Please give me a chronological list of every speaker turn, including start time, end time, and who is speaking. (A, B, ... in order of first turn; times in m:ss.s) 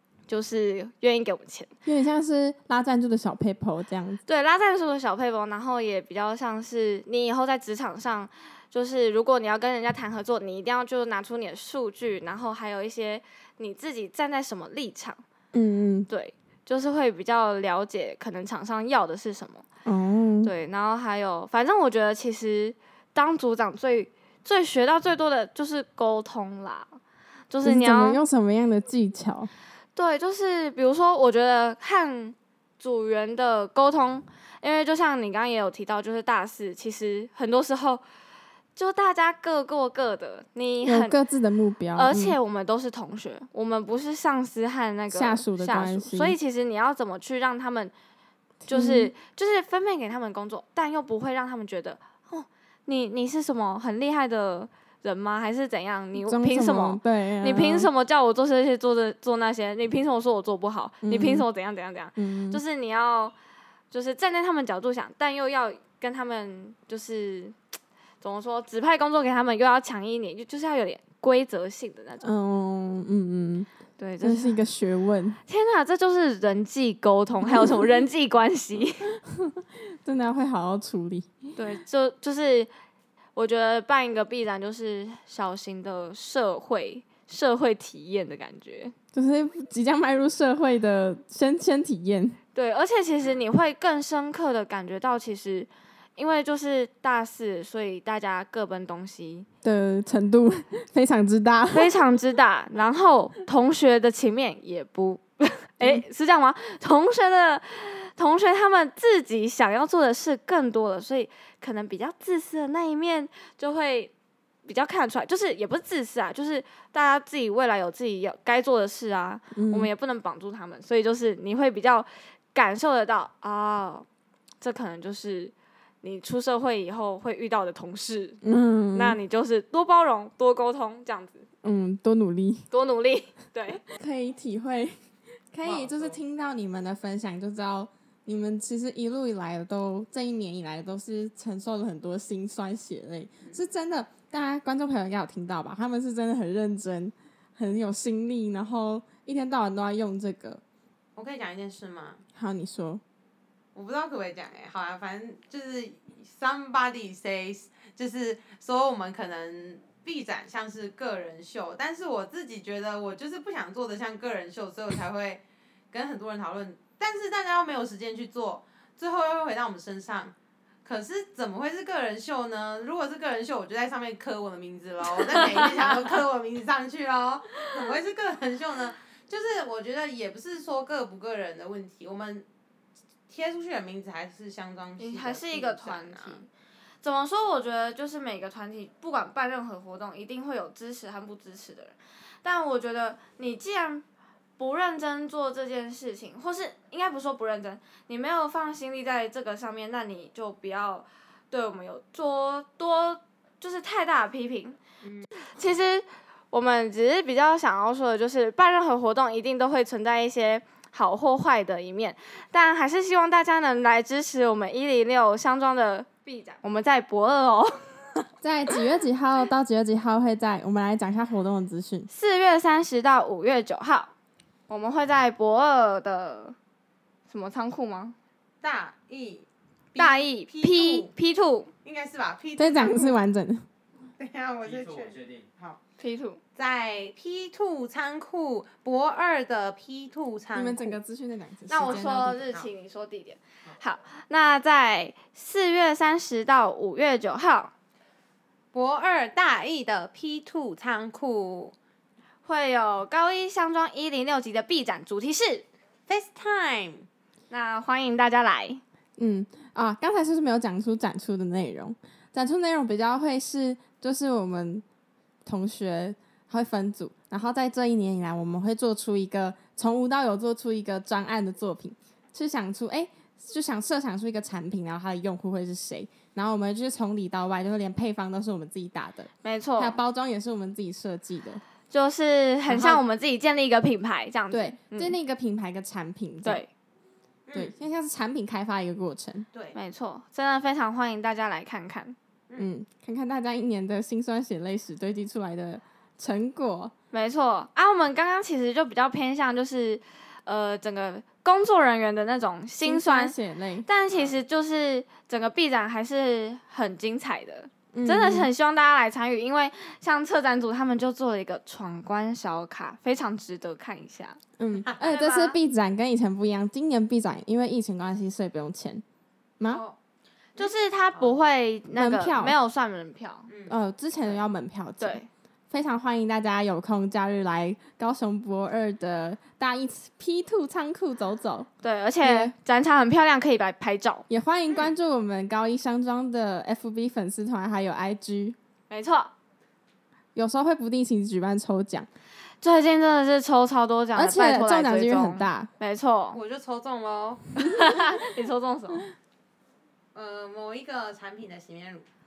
0:00.3-0:01.7 A
0:01.8-0:04.2 B
0:04.3-0:15.2 A
0:15.5-0:16.1 B
0:16.1-0:19.6 A
0:19.8-0:20.5 B
0:20.4-0:27.0 A
0:27.5-0:28.2 A
0:27.6-0:29.5 B
0:30.0-0:38.0 A
0:38.8-0:41.2 A
0:40.8-0:42.4 B
0:41.9-0:47.9 A
0:45.1-0:46.4 B
0:48.6-0:49.1 B
0:48.7-1:03.3 A
0:56.2-0:57.9 B
1:01.0-1:01.5 B
1:02.2-1:02.6 B
1:03.9-1:07.6 A
1:08.2-1:12.2 A
1:12.2-1:13.7 B
1:14.0-1:14.6 A
1:14.2-1:15.4 B
1:15.5-1:19.1 A
1:17.4-1:18.0 B
1:19.3-1:21.6 B
1:21.6-1:22.7 A
1:23.4-1:28.9 A
1:29.1-1:32.4 B
1:32.5-1:39.5 A
1:39.6-1:42.0 B
1:41.7-1:54.1 A
1:54.6-2:04.1 A
1:59.5-1:59.9 B
2:04.6-2:08.4 A
2:08.4-2:09.2 B
2:08.9-2:11.4 A
2:11.6-2:12.7 B
2:12.7-2:13.8 A
2:14.0-2:15.0 B
2:15.5-2:30.6 B
2:15.6-2:16.2 C
2:31.2-2:32.2 C
2:32.4-2:33.0 B
2:33.8-3:02.5 C
2:55.3-2:55.8 A
3:03.3-3:06.4 C
3:05.0-3:06.5 A
3:07.0-3:14.0 A
3:14.6-3:24.8 A
3:25.4-3:37.9 A
3:38.4-3:42.1 B
3:42.1-3:44.1 A
3:44.7-3:46.6 A
3:47.3-3:48.2 A
3:48.6-3:51.1 C
3:50.0-3:51.7 A
3:51.8-3:53.2 C
3:52.6-3:53.6 B
3:54.2-3:55.8 C
3:56.0-3:56.4 A
3:56.6-4:01.0 C
4:00.5-4:02.3 B
4:01.7-4:07.7 A
4:01.8-4:02.7 C
4:08.7-4:11.7 C
4:12.4-4:15.7 A
4:16.1-4:17.1 C
4:17.5-4:18.8 A
4:19.2-4:24.8 B
4:25.4-4:41.6 B
4:39.4-4:40.0 A
4:41.9-4:45.2 A
4:42.7-4:43.0 C
4:44.5-4:46.6 B
4:46.4-4:46.7 A
4:47.5-4:47.7 C
4:47.5-4:49.5 B
4:49.7-4:52.2 A
4:52.6-4:56.9 B
4:57.1-5:14.4 A
5:02.8-5:03.9 B
5:04.1-5:04.4 C
5:07.9-5:08.5 B
5:14.6-5:19.0 B
5:15.0-5:15.6 A
5:19.7-5:20.0 C
5:20.6-5:21.4 C
5:20.6-5:23.5 A
5:22.0-5:22.6 B
5:23.5-5:24.4 C
5:23.7-5:31.7 B
5:25.0-5:25.3 A
5:31.8-5:34.2 A
5:32.2-5:32.5 B
5:34.3-5:38.6 B
5:38.9-5:39.3 A
5:40.4-5:42.1 B
5:42.6-5:46.4 A
5:44.2-5:45.7 B
5:46.3-5:47.5 C
5:47.6-5:49.0 A
5:50.2-5:52.1 C